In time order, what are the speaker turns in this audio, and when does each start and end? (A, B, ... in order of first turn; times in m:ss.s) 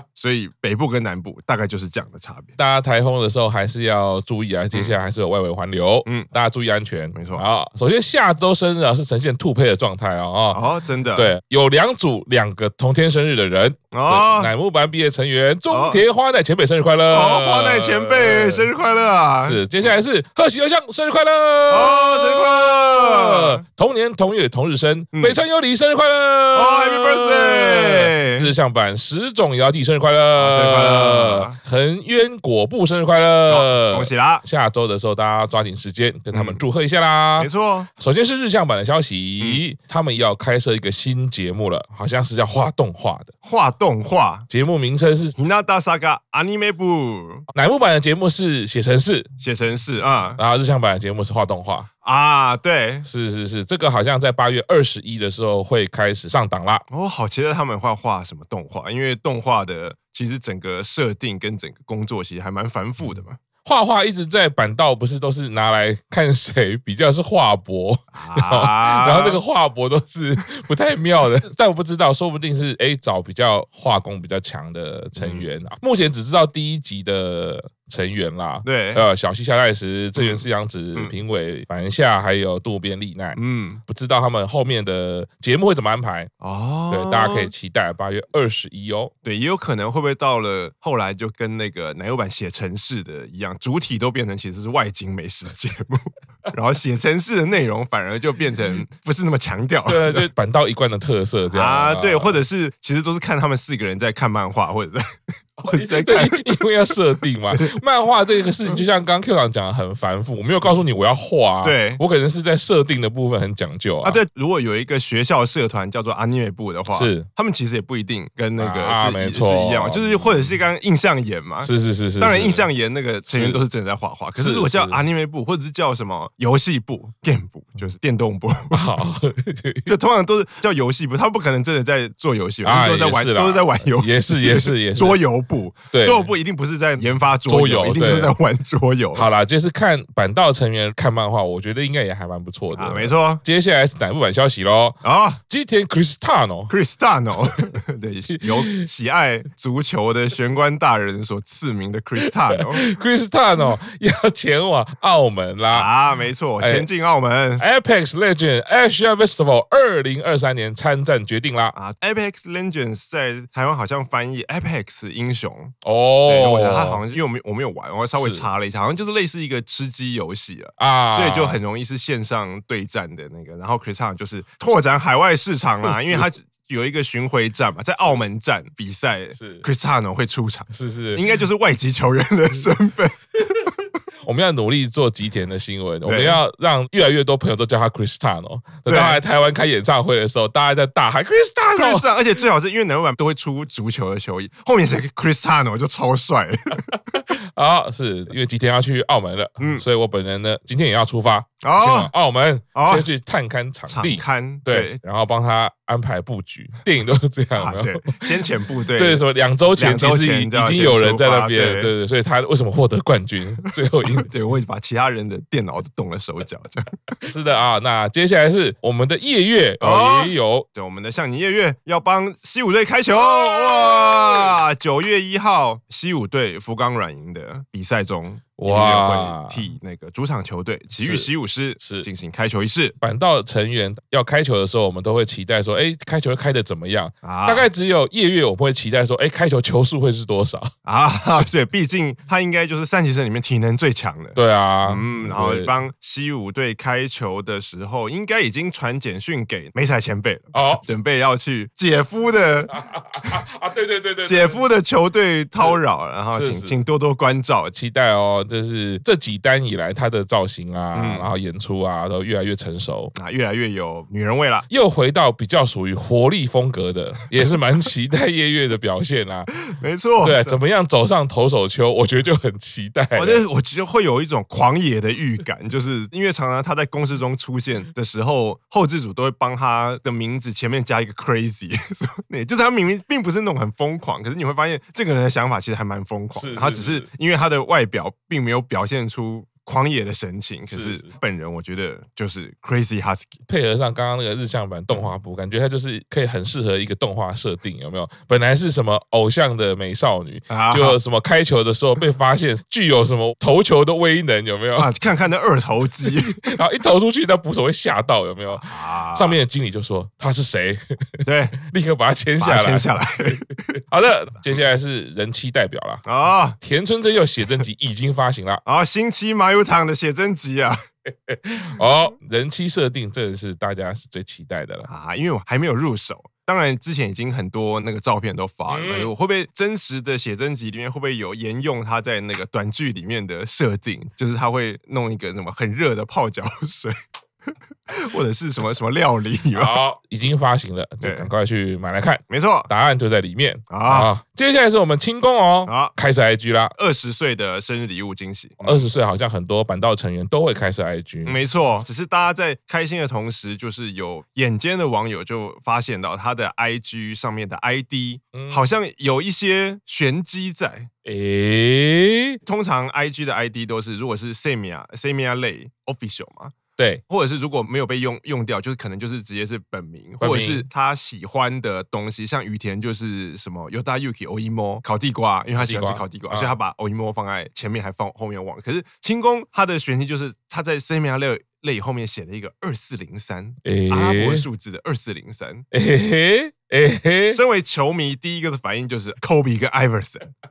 0:00.1-0:02.5 A
0:02.6-0:10.6 B
0:07.1-0:07.4 A
0:10.5-0:11.3 A
0:11.2-0:18.7 B
0:13.9-0:14.5 A
0:15.7-0:16.0 A
0:17.1-0:19.6 A
0:19.4-0:43.3 B
0:21.7-0:23.6 A
0:25.1-0:25.4 A
0:26.5-0:28.5 A
0:30.4-0:31.6 A
0:33.5-0:34.4 A
0:36.3-0:36.6 A
0:37.4-0:37.9 A
0:43.4-0:44.5 A
0:44.5-0:45.4 B
0:45.4-0:47.4 A
0:47.5-0:49.3 B
0:49.4-0:50.4 A
0:50.4-0:51.9 B
0:52.0-0:53.1 A
0:53.0-0:56.8 B
0:56.9-1:03.4 A
1:03.6-1:26.3 B
1:08.1-1:09.4 A
1:15.2-1:15.5 A
1:18.6-1:19.1 A
1:20.2-1:20.4 A
1:23.3-1:23.8 A
1:26.4-1:27.5 A
1:26.9-1:29.1 B
1:29.2-1:40.3 A
1:39.9-1:42.4 B
1:41.5-1:45.0 A
1:45.6-1:54.2 B
1:45.6-1:46.6 A
1:51.6-1:52.0 A
1:54.0-2:09.0 A
1:56.9-1:57.3 B
1:58.6-2:00.6 B
2:01.6-2:02.7 B
2:03.3-2:03.6 B
2:04.4-2:05.0 B
2:08.7-2:09.9 B
2:09.9-2:19.2 A
2:12.6-2:15.2 B
2:15.9-2:16.3 B
2:17.5-2:18.3 B
2:19.2-2:25.0 B
2:22.7-2:23.4 A
2:25.0-2:25.4 A
2:25.5-2:26.7 B
2:26.7-2:32.8 A
2:28.3-2:28.9 B
2:32.2-2:35.9 B
2:35.7-2:37.6 A
2:36.6-2:36.9 B
2:37.6-2:41.8 B
2:41.8-2:45.7 A
2:45.8-2:47.0 B
2:46.2-3:03.2 A
2:48.2-2:48.5 B
2:50.8-2:51.6 B
2:55.8-2:56.3 B
2:59.4-2:59.6 B
3:00.7-3:01.3 B
3:04.2-3:12.1 B
3:06.0-3:06.4 A
3:08.9-3:09.2 A
3:11.7-3:16.8 A
3:17.0-3:28.2 B
3:19.6-3:19.8 A
3:21.6-3:22.1 A
3:22.7-3:23.1 A
3:23.9-3:25.0 A
3:27.6-3:31.9 A
3:29.0-3:34.3 B
3:34.2-3:36.9 A
3:37.2-3:40.7 B
3:39.8-3:53.0 A
3:43.2-3:44.6 B
3:48.6-3:49.7 B
3:51.0-3:52.1 B
3:53.0-4:00.7 B
3:57.2-3:57.7 A
4:00.8-4:12.7 A
4:04.4-4:05.7 B
4:10.5-4:10.8 B
4:12.7-4:14.6 B
4:14.2-4:17.7 A
4:16.3-4:16.8 B
4:17.7-4:23.1 B
4:20.9-4:21.3 A
4:23.1-4:24.7 A
4:24.7-4:29.5 B
4:29.7-4:30.6 A
4:30.2-4:33.4 B
4:33.2-4:53.4 A
4:46.3-4:47.1 B
4:50.7-4:51.1 B
4:53.4-5:04.9 B
5:00.5-5:01.0 A
5:04.8-5:06.4 A
5:06.1-5:13.0 B
5:08.5-5:09.4 A
5:11.2-5:11.5 A
5:12.4-5:13.6 A
5:13.9-5:16.0 B
5:16.0-5:16.6 A
5:16.6-5:18.6 B
5:18.6-5:20.8 A
5:21.3-5:24.9 B
5:24.9-5:36.9 A
5:28.7-5:29.1 B
5:37.9-5:39.8 A
5:39.5-5:46.7 B
5:41.0-5:41.3 A
5:42.3-5:42.7 A
5:43.7-5:44.1 A
5:45.7-5:45.9 A
5:46.8-5:48.9 A
5:48.6-5:51.4 B
5:51.2-6:00.9 A
5:58.3-5:58.7 B
6:01.0-6:02.4 B
6:02.4-6:06.5 A
6:07.1-6:25.7 A
6:10.2-6:10.7 B
6:15.6-6:16.6 B
6:23.6-6:24.5 B
6:25.7-6:27.4 B
6:27.3-6:30.2 A